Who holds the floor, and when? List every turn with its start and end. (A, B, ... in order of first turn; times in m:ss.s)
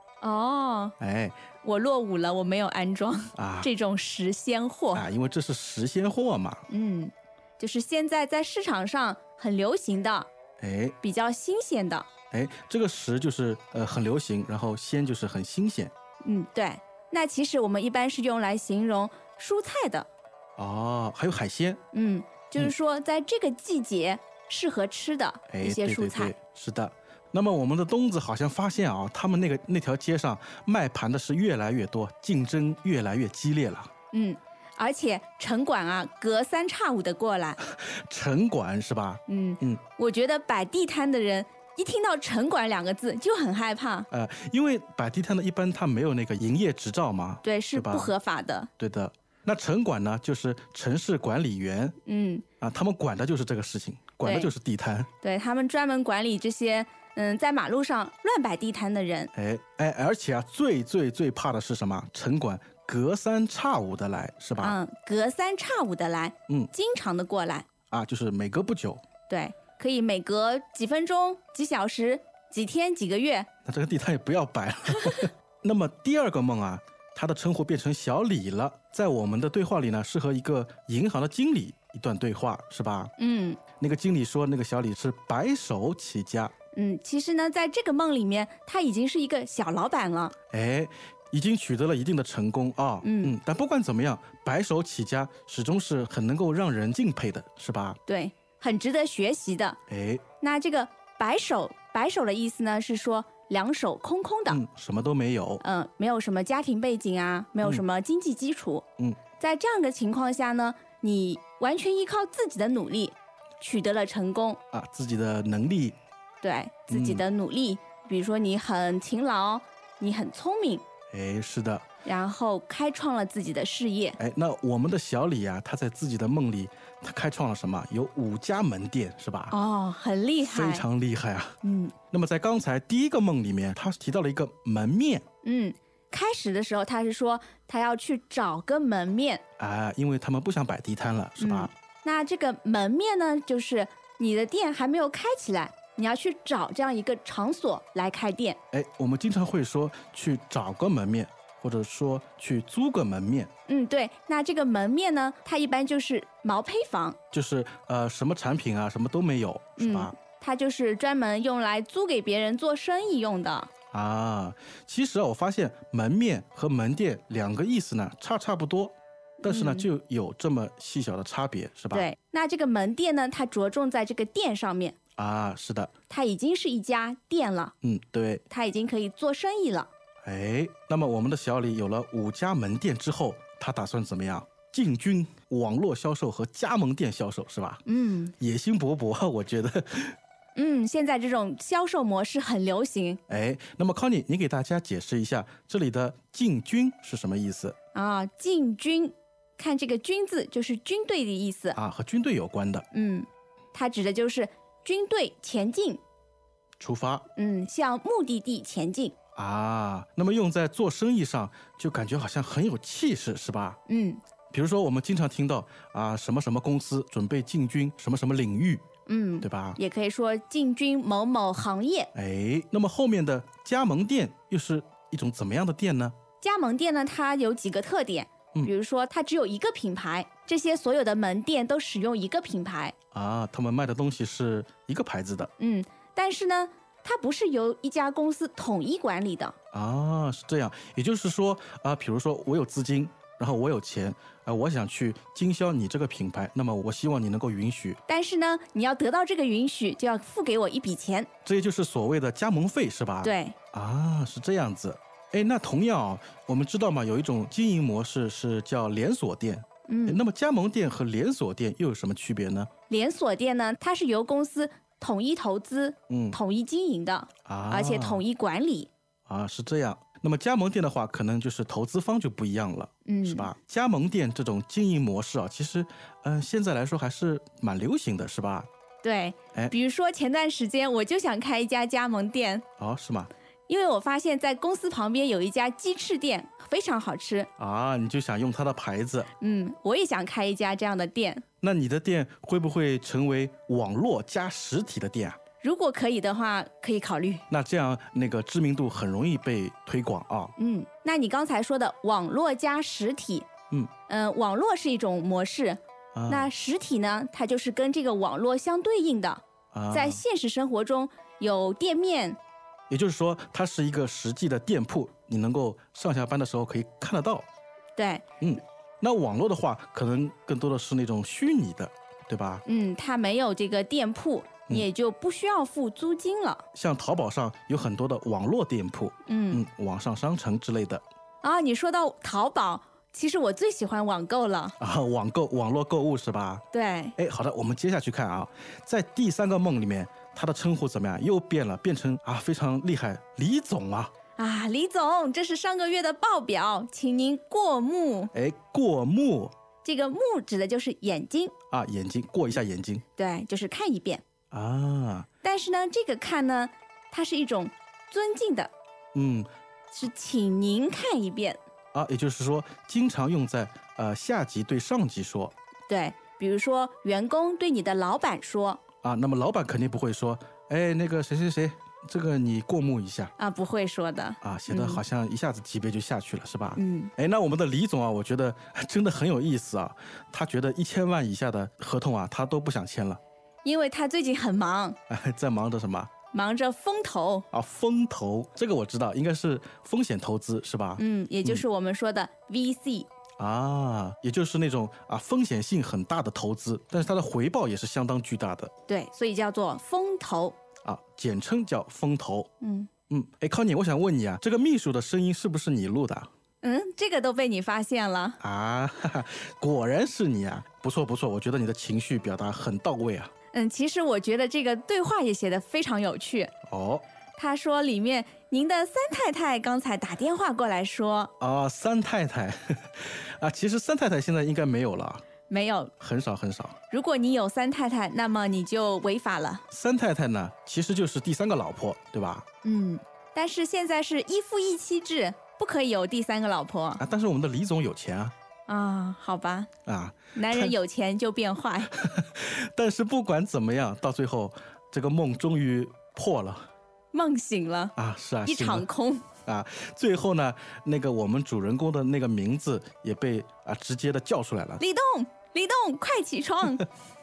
0:00.2-0:00.9 A
0:01.0-0:01.4 B
0:01.6-0:05.0 A
0:03.4-0:03.7 B
0:04.9-0:06.6 B
0:06.7-0:10.3 A
0:10.6-0:11.0 B
0:11.0-0:12.1 A
0:12.3-0:15.9 B
0:16.2-0:20.1 A
0:20.6-0:21.8 B
0:21.9-0:26.3 A
0:25.5-0:33.9 B
0:34.1-0:37.6 A
0:37.7-0:39.8 B
0:39.3-0:44.1 A
0:44.1-0:48.1 B
0:47.4-0:48.7 A
0:48.8-0:52.0 B
0:52.0-0:52.4 A
0:52.6-0:55.1 B
0:54.2-0:54.5 A
0:55.2-0:59.3 A
0:59.3-1:04.8 B
1:04.6-1:07.7 A
1:07.9-1:09.0 B
1:09.3-1:13.5 A
1:13.6-1:23.1 B
1:23.2-1:23.6 A
1:23.8-1:26.5 B
1:26.7-1:30.3 A
1:30.5-1:38.0 B
1:33.0-1:33.3 A
1:38.1-1:39.8 A
1:39.9-1:40.2 B
1:40.4-1:44.6 A
1:44.5-1:45.6 B
1:45.6-1:48.8 A
1:49.4-1:54.6 A
1:54.7-1:56.0 B
1:56.4-2:00.8 A
1:56.9-1:57.2 B
2:01.1-2:01.8 B
2:02.0-2:04.2 A
2:04.2-2:09.5 B
2:09.5-2:10.8 A
2:10.4-2:11.6 B
2:11.6-2:11.9 A
2:12.1-2:15.2 B
2:15.4-2:19.4 A
2:19.6-2:21.7 B
2:21.4-2:28.6 A
2:28.7-2:33.5 B
2:33.7-2:37.2 A
2:37.3-2:40.1 B
2:39.8-2:43.7 A
2:43.9-2:52.1 B
2:49.4-2:49.9 A
2:51.9-2:54.9 A
2:55.2-2:55.9 B
2:56.1-2:57.7 A
2:57.8-2:58.4 B
2:58.5-2:59.9 A
3:00.2-3:07.8 B
3:07.8-3:08.3 A
3:08.4-3:10.2 B
3:10.6-3:13.2 A
3:13.3-3:17.8 B
3:17.9-3:21.8 A
3:21.7-3:22.8 B
3:22.9-3:26.0 A
3:26.8-3:27.2 B
3:27.3-3:29.1 A
3:29.4-3:33.8 B
3:33.9-3:34.2 A
3:34.5-3:38.8 B
3:39.1-3:42.1 A
3:39.4-3:39.8 B
3:42.1-3:46.1 B
3:46.4-3:52.9 A
3:53.1-3:55.5 B
3:55.6-3:59.5 A
3:59.7-4:08.0 B
4:08.1-4:11.3 A
4:11.4-4:22.7 B
4:13.2-4:13.6 A
4:19.9-4:20.2 A
4:22.9-4:28.9 A
4:26.1-4:26.4 B
4:27.4-4:28.2 B
4:29.3-4:38.7 B
4:33.0-4:33.5 A
4:39.0-4:42.6 A
4:42.8-4:43.3 B
4:43.7-4:47.5 A
4:47.6-4:49.3 B
4:49.4-4:51.4 A
4:51.6-4:55.4 B
4:55.6-4:57.4 A
4:57.5-5:00.5 B
5:00.6-5:03.5 A
5:04.1-5:12.4 A
5:06.1-5:06.5 B
5:09.7-5:10.2 B
5:12.9-5:17.4 B
5:18.0-5:18.2 A
5:18.4-5:22.6 B
5:22.6-5:26.6 A
5:26.7-5:31.0 B
5:29.3-5:29.6 A
5:31.4-5:34.8 A
5:34.8-5:36.6 B
5:36.7-5:37.1 A
5:37.2-5:44.1 B
5:44.4-5:48.3 A
5:48.3-5:49.5 B
5:49.8-5:51.5 A
5:51.7-5:53.0 B
5:53.2-5:54.2 A
5:54.5-5:55.3 B
5:55.4-5:58.7 A
5:59.1-5:59.5 B
5:59.9-6:01.6 A
6:01.9-6:05.5 B
6:05.9-6:08.8 A
6:09.0-6:13.3 B
6:13.4-6:15.0 A
6:14.4-6:23.2 B
6:16.8-6:17.1 A
6:23.6-6:25.0 A
6:25.1-6:26.1 B
6:26.3-6:27.4 A
6:27.5-6:31.6 B
6:31.0-6:33.1 A
6:33.4-6:38.7 B
6:38.9-6:40.6 A
6:40.8-6:42.5 B
6:42.6-6:42.9 A
6:43.1-6:46.3 B
6:46.6-6:48.4 A
6:48.4-6:53.3 B
6:53.5-6:56.5 A
6:56.7-6:57.0 B
6:57.4-7:01.3 A
7:01.4-7:05.2 B
7:05.5-7:05.9 A
7:06.0-7:06.8 B
7:06.9-7:09.6 A
7:09.7-7:12.4 B
7:12.6-7:17.0 A
7:17.0-7:18.3 B
7:18.7-7:19.7 A
7:19.8-7:20.7 B
7:20.3-7:21.9 A
7:22.0-7:26.7 B
7:27.1-7:29.3 A
7:28.0-7:28.9 B
7:29.4-7:34.8 B
7:34.8-7:36.8 A